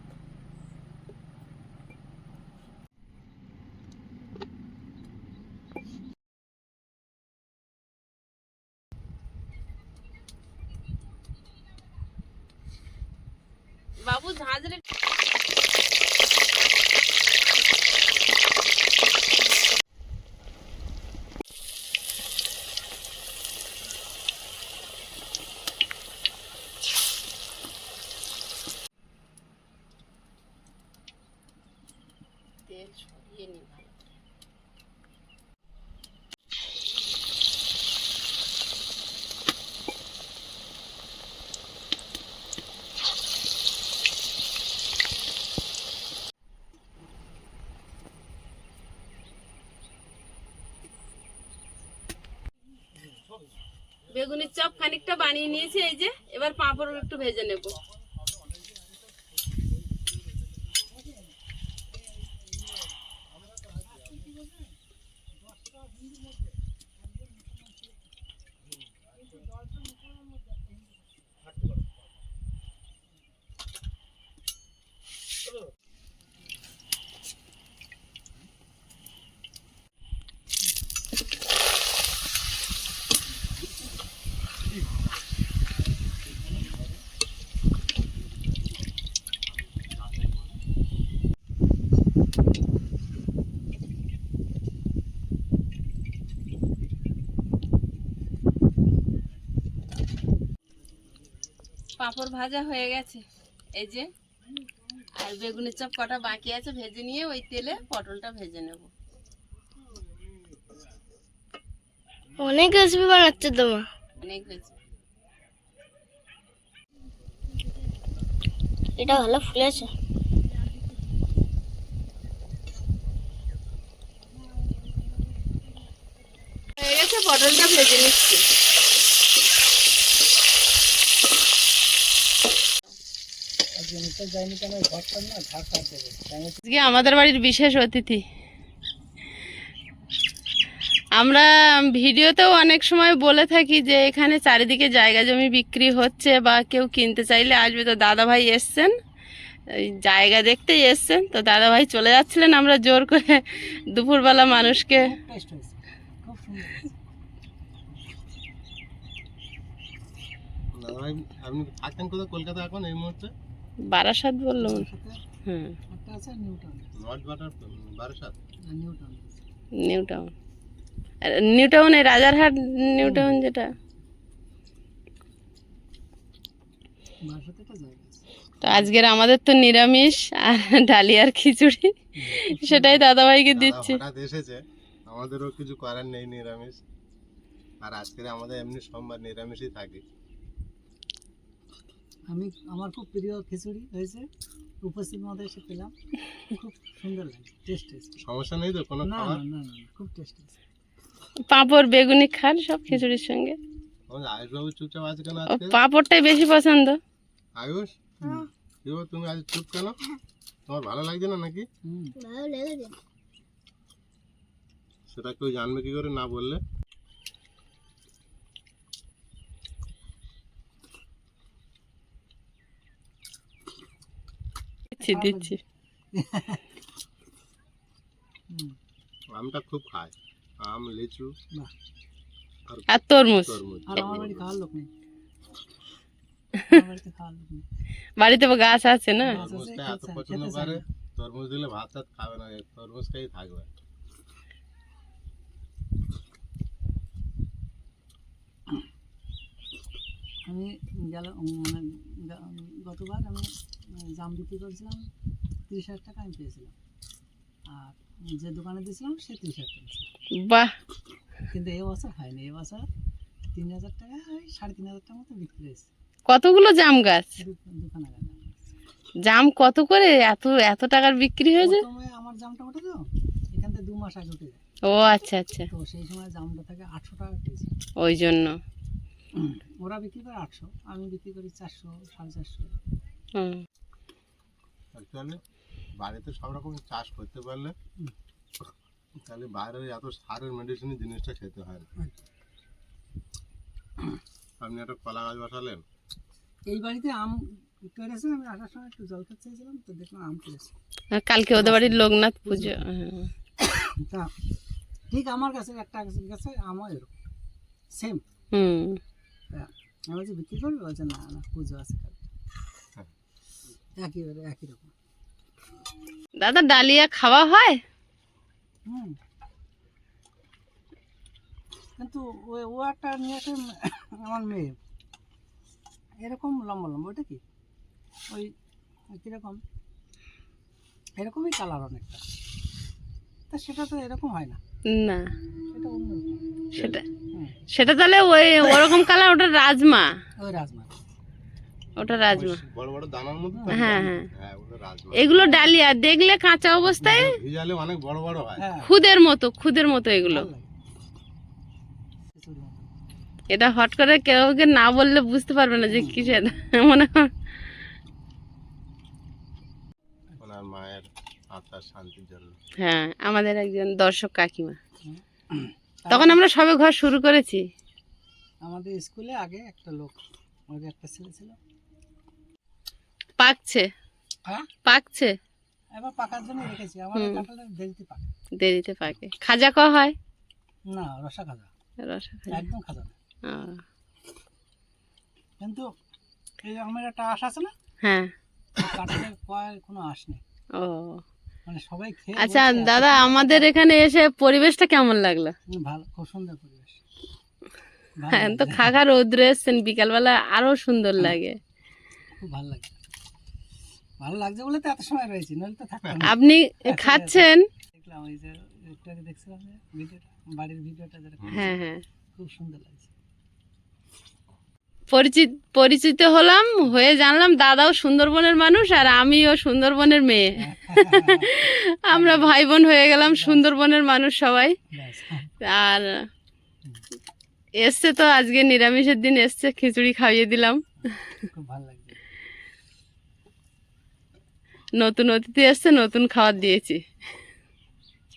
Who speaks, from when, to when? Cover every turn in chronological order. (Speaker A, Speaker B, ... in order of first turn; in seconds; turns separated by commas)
Speaker A: 14.0-14.8, Speaker A: 32.7-34.2, Speaker A: 54.1-57.8, Speaker B: 60.9-61.3, Speaker B: 63.5-64.8, Speaker B: 65.3-68.0, Speaker B: 69.3-70.8, Speaker B: 86.5-87.0, Speaker A: 102.0-103.2, Speaker A: 103.8-104.1, Speaker A: 105.2-108.9, Speaker C: 112.4-113.9, Speaker A: 114.2-114.7, Speaker C: 119.0-119.9, Speaker A: 126.8-128.4, Speaker B: 133.8-136.6, Speaker A: 136.6-138.2, Speaker A: 141.2-148.9, Speaker A: 150.0-155.1, Speaker B: 154.9-157.0, Speaker D: 160.8-163.3, Speaker A: 163.9-164.9, Speaker B: 164.6-165.2, Speaker A: 165.4-165.8, Speaker B: 165.9-166.9, Speaker D: 167.0-168.3, Speaker B: 168.7-169.4, Speaker A: 169.8-170.3, Speaker A: 171.2-173.7, Speaker B: 173.0-173.4, Speaker B: 177.2-178.9, Speaker A: 178.6-184.0, Speaker B: 182.2-183.0, Speaker D: 183.5-186.8, Speaker D: 187.8-190.0, Speaker B: 192.3-194.2, Speaker B: 194.8-195.9, Speaker B: 196.5-198.2, Speaker D: 198.2-199.4, Speaker B: 199.0-200.6, Speaker A: 201.5-203.6, Speaker D: 204.1-205.8, Speaker A: 205.5-207.0, Speaker D: 207.6-207.9, Speaker B: 208.2-208.5, Speaker D: 208.8-210.0, Speaker D: 210.7-211.6, Speaker B: 211.8-212.2, Speaker C: 212.2-212.9, Speaker D: 215.1-216.6, Speaker B: 224.9-225.6, Speaker A: 224.9-225.6, Speaker B: 226.1-226.6, Speaker B: 228.5-228.8, Speaker D: 229.3-231.3, Speaker A: 232.9-233.6, Speaker D: 233.4-234.5, Speaker B: 233.9-234.9, Speaker B: 236.7-237.7, Speaker A: 238.2-239.4, Speaker B: 239.3-240.9, Speaker D: 239.3-243.7, Speaker B: 250.5-255.1, Speaker B: 255.7-256.7, Speaker B: 257.7-260.1, Speaker A: 260.4-260.7, Speaker B: 261.5-262.9, Speaker B: 263.5-265.9, Speaker A: 266.3-267.3, Speaker B: 267.4-268.4, Speaker A: 269.2-271.8, Speaker B: 271.6-274.6, Speaker A: 274.9-275.6, Speaker B: 275.7-277.7, Speaker A: 278.0-278.6, Speaker B: 279.4-282.8, Speaker D: 284.9-285.4, Speaker D: 286.0-287.7, Speaker D: 289.2-291.9, Speaker D: 294.6-295.8, Speaker B: 296.7-300.7, Speaker A: 301.1-303.3, Speaker B: 301.5-302.8, Speaker B: 303.6-304.3, Speaker B: 305.1-307.1, Speaker B: 307.9-308.2, Speaker A: 308.5-309.0, Speaker B: 309.5-312.2, Speaker B: 314.0-314.9, Speaker A: 316.4-317.8, Speaker B: 318.9-319.2, Speaker B: 322.0-324.8, Speaker B: 326.2-327.4, Speaker B: 329.1-329.6, Speaker B: 331.2-332.2, Speaker B: 333.5-334.6, Speaker A: 334.9-335.2, Speaker B: 335.7-336.6, Speaker A: 336.8-337.0, Speaker A: 337.7-340.1, Speaker B: 340.4-340.9, Speaker A: 342.0-342.6, Speaker B: 342.3-342.7, Speaker D: 342.7-345.3, Speaker B: 343.5-344.1, Speaker A: 343.7-344.3, Speaker A: 345.2-347.3, Speaker B: 345.4-345.7, Speaker D: 346.9-348.6, Speaker B: 348.6-348.9, Speaker A: 348.8-350.4, Speaker B: 350.2-350.7, Speaker B: 352.3-352.9, Speaker A: 353.5-357.3, Speaker B: 355.9-356.4, Speaker D: 360.4-362.6, Speaker A: 362.8-364.8, Speaker B: 365.0-366.4, Speaker A: 366.1-367.6, Speaker B: 368.6-370.2, Speaker B: 370.7-371.6, Speaker A: 373.4-373.9, Speaker A: 374.9-375.3, Speaker B: 375.9-378.3, Speaker A: 377.1-377.4, Speaker A: 378.6-380.1, Speaker B: 380.9-381.7, Speaker A: 382.0-382.6, Speaker B: 382.5-383.1, Speaker A: 383.5-383.8, Speaker B: 385.6-385.8, Speaker B: 386.6-387.7, Speaker A: 388.0-388.3, Speaker B: 388.8-390.4, Speaker A: 390.8-391.2, Speaker B: 391.6-393.7, Speaker A: 392.4-395.5, Speaker B: 395.7-397.0, Speaker B: 398.2-398.9, Speaker A: 398.3-401.6, Speaker B: 402.4-403.0, Speaker B: 404.2-407.4, Speaker A: 406.2-407.6, Speaker B: 407.9-411.7, Speaker D: 411.4-411.8, Speaker A: 411.5-412.0, Speaker B: 412.4-413.1, Speaker A: 415.1-424.8, Speaker B: 420.6-422.5, Speaker B: 423.2-423.6, Speaker B: 424.9-425.5, Speaker A: 425.6-426.1, Speaker A: 427.8-431.2, Speaker B: 431.5-432.2, Speaker A: 435.0-437.0